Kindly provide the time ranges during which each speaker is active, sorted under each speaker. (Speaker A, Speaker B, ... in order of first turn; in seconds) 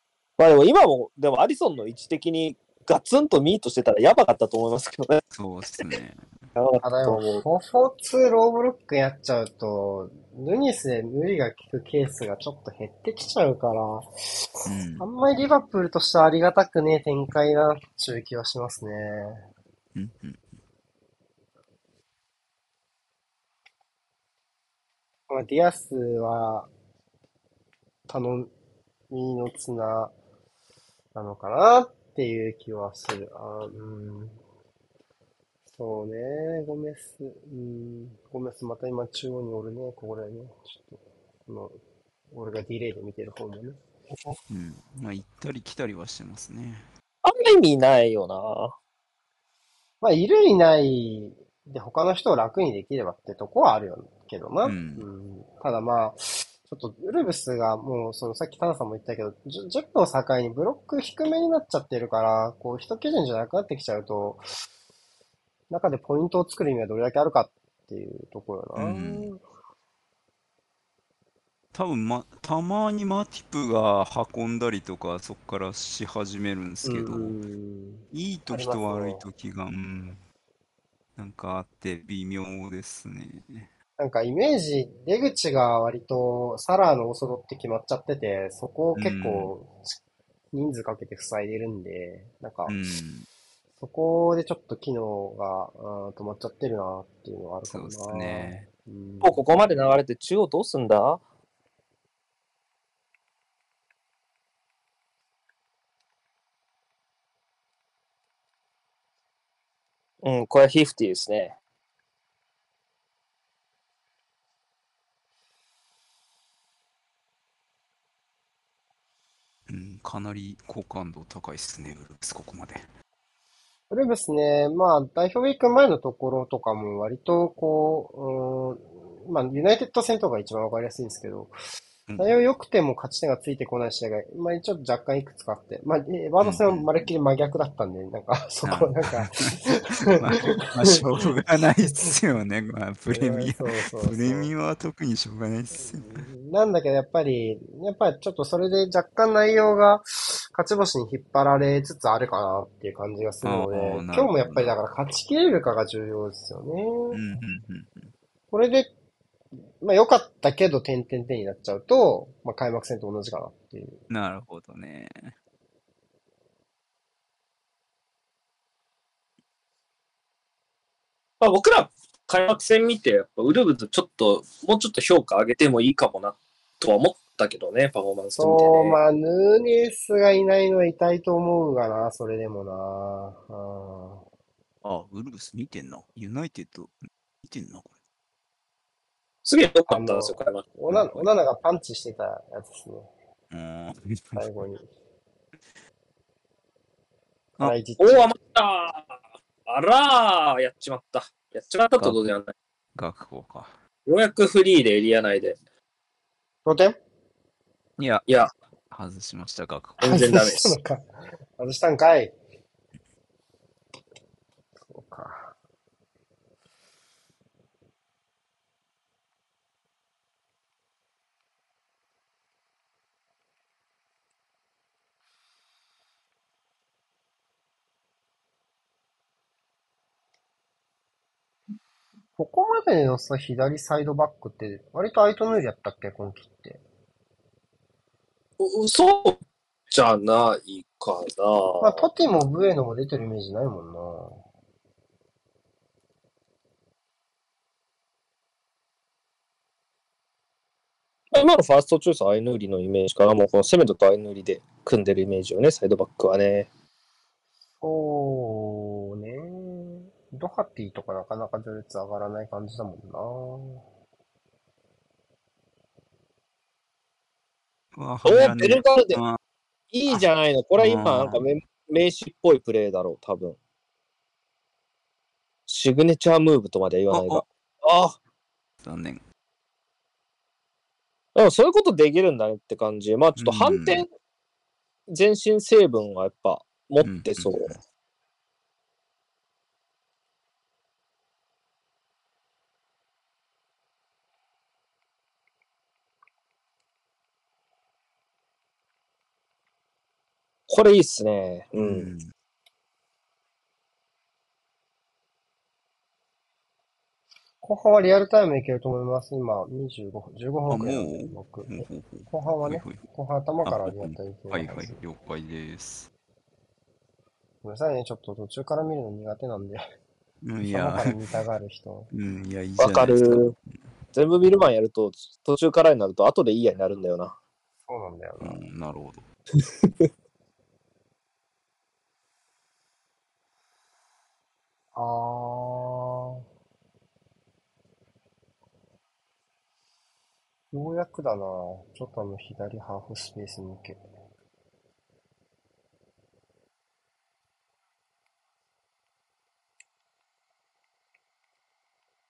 Speaker A: 0.4-5.2, 6.6-7.4, 47.2-48.8, 99.2-101.2, 110.2-111.6, 171.4-179.0, 189.4-190.7, 198.0-202.5, 204.1-205.6, 210.0-210.8, 238.6-239.4, 239.9-242.0, 251.3-256.7, 268.2-269.2, 269.9-273.6, 275.7-278.2, 281.4-284.1, 285.1-287.7, 300.7-302.1, 322.8-323.5, 324.1-327.4, 329.6-330.1
Speaker B: 5.3-6.3, 14.7-15.1, 19.9-20.6, 44.5-46.9, 54.6-55.1, 68.8-69.3, 71.7-77.4, 78.1-80.2, 81.2-83.7, 89.0-89.5, 92.7-93.3, 97.7-98.7, 119.7-122.9, 132.1-132.3, 136.4-137.0, 138.7-146.3, 153.4-154.8, 157.1-158.1, 164.1-165.3, 184.8-187.9, 190.9-191.3, 193.5-194.5, 202.9-203.8, 208.0-208.3, 208.9-210.2, 267.9-269.4, 270.8-271.4, 277.1-277.4, 278.8-279.2, 283.4-284.1, 287.0-287.8, 301.8-302.3, 310.7-313.0, 313.6-316.1, 320.4-321.4, 322.1-323.6, 328.4-329.3
Speaker C: 6.8-14.1, 15.0-19.5, 25.3-26.7, 28.1-28.5, 29.1-30.1, 31.1-34.4, 35.8-41.8, 42.3-43.8, 50.0-64.4, 65.7-69.4, 76.8-79.2, 84.0-90.0, 90.5-92.8, 93.8-100.0, 123.9-131.5, 132.2-141.0, 141.8-142.1, 143.1-144.5, 145.8-157.2, 158.5-158.9, 159.8-164.0, 178.4-184.2, 189.9-193.1, 194.4-194.9, 197.6-198.3, 206.7-207.0, 210.0-212.3, 214.8-215.6, 232.4-236.8, 241.8-244.4, 257.8-263.8, 307.6-315.0, 317.6-319.9, 320.6-322.1, 327.9-328.6, 334.9-336.4, 340.7-344.0